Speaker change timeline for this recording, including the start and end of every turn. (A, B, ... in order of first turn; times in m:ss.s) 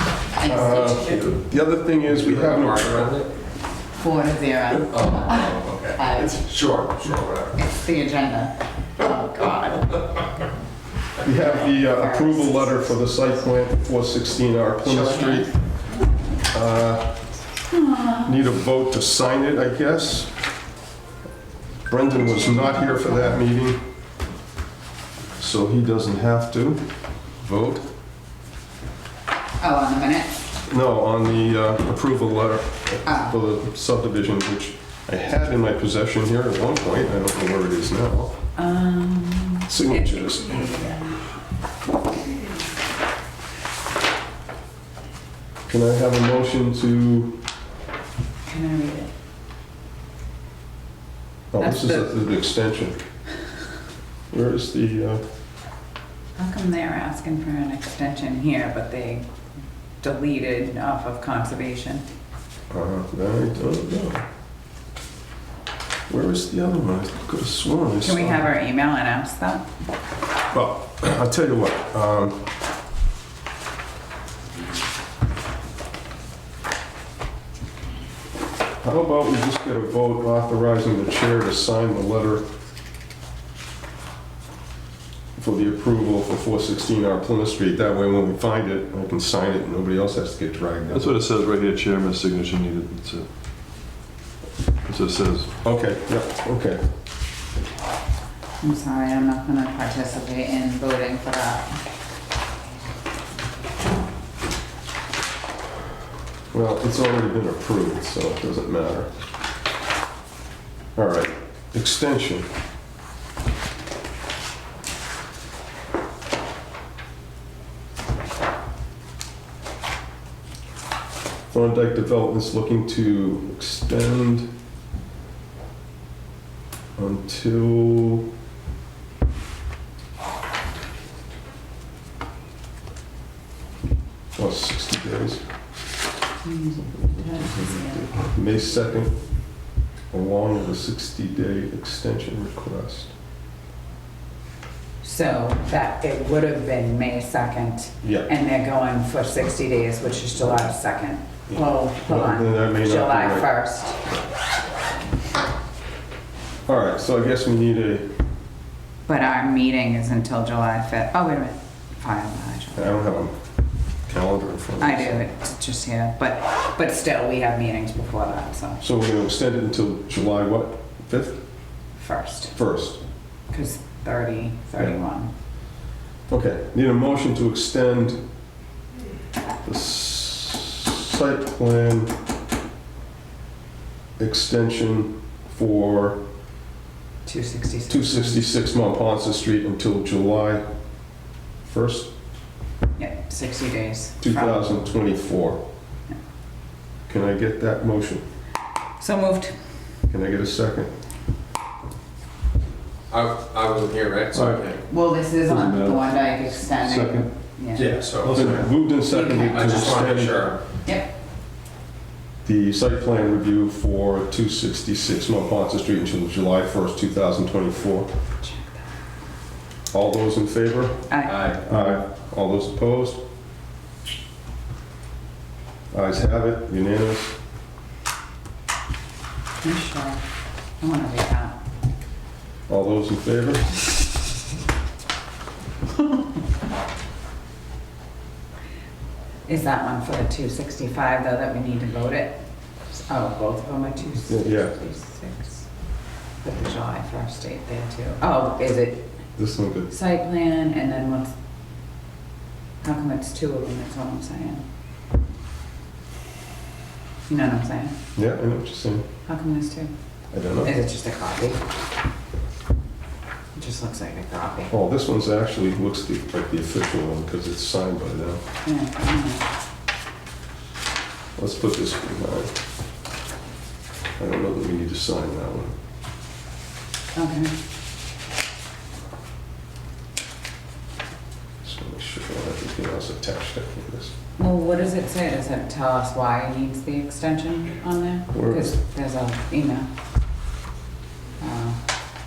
0:00.3-0:01.3 A
0:00.4-0:03.2 B
0:02.1-0:03.3 C
0:04.0-0:06.4 A
0:04.8-0:07.6 C
0:07.6-0:10.0 A
0:11.2-0:15.5 B
0:11.3-0:13.0 A
0:14.8-0:15.5 A
0:16.5-0:17.2 B
0:17.7-0:18.3 A
0:18.2-0:20.3 B
0:21.9-0:23.8 B
0:22.2-0:23.4 A
0:25.4-0:26.8 B
0:27.4-0:27.8 B
0:29.6-0:30.4 A
0:30.7-0:38.4 B
0:33.0-0:33.3 A
0:38.6-0:41.2 A
0:39.7-0:40.7 B
0:45.7-0:47.4 B
0:48.4-0:49.1 A
0:51.5-0:53.0 B
0:51.6-0:52.1 A
0:54.3-0:55.2 B
0:56.4-0:59.2 A
1:00.0-1:02.0 A
1:02.7-1:04.2 B
1:06.1-1:08.5 B
1:08.0-1:09.6 A
1:10.5-1:12.5 B
1:18.8-1:22.4 B
1:25.4-1:31.2 B
1:30.9-1:33.2 D
1:34.8-1:35.5 D
1:35.6-1:36.8 B
1:38.6-1:41.8 A
1:46.5-1:49.1 B
1:51.0-1:52.5 B
2:01.5-2:04.5 B
2:07.0-2:08.3 B
2:14.4-2:15.4 B
2:16.4-2:18.5 A
2:17.0-2:19.1 B
2:20.1-2:23.1 B
2:25.0-2:34.1 A
2:28.0-2:28.3 B
2:31.5-2:33.5 B
2:36.7-2:38.1 B
2:39.0-2:43.0 A
2:42.7-2:43.3 B
2:44.1-2:45.2 B
2:44.8-2:48.8 A
2:48.8-2:51.4 B
2:52.0-2:52.5 A
2:52.5-2:53.0 B
2:53.5-2:55.3 A
2:56.3-2:58.2 B
2:59.6-3:02.1 B
3:04.2-3:06.2 B
3:07.2-3:08.5 A
3:07.9-3:10.6 B
3:11.6-3:12.1 B
3:13.0-3:14.7 A
3:14.2-3:15.6 B
3:17.1-3:18.2 B
3:19.0-3:19.5 A
3:20.1-3:20.9 B
3:23.1-3:24.8 C
3:24.3-3:24.7 D
3:24.9-3:27.9 A
3:25.4-3:28.6 D
3:27.8-3:30.6 C
3:28.2-3:30.5 B
3:29.1-3:30.0 A
3:30.8-3:31.1 A
3:32.4-3:38.1 B
3:38.4-3:38.8 A
3:39.9-3:41.1 B
3:41.1-3:41.6 A
3:41.3-3:41.6 C
3:41.6-3:43.2 B
3:45.9-3:47.4 B
3:49.6-3:50.2 A
3:50.8-3:51.6 A
3:52.7-3:53.8 B
3:59.5-4:02.4 A
4:02.9-4:05.6 A
4:04.2-4:04.7 B
4:06.4-4:09.1 A
4:09.4-4:09.9 B
4:09.9-4:11.3 A
4:12.8-4:14.6 A
4:17.3-4:18.0 A
4:18.1-4:19.1 B
4:19.2-4:19.9 A
4:20.3-4:20.8 B
4:20.6-4:21.6 A
4:23.5-4:24.7 A
4:24.7-4:28.4 B
4:28.6-4:29.5 A
4:31.4-4:32.5 B
4:34.2-4:35.7 B
4:37.1-4:37.5 A
4:41.6-4:44.1 B
4:44.4-4:49.9 A
4:48.3-4:48.8 B
4:51.4-4:51.8 A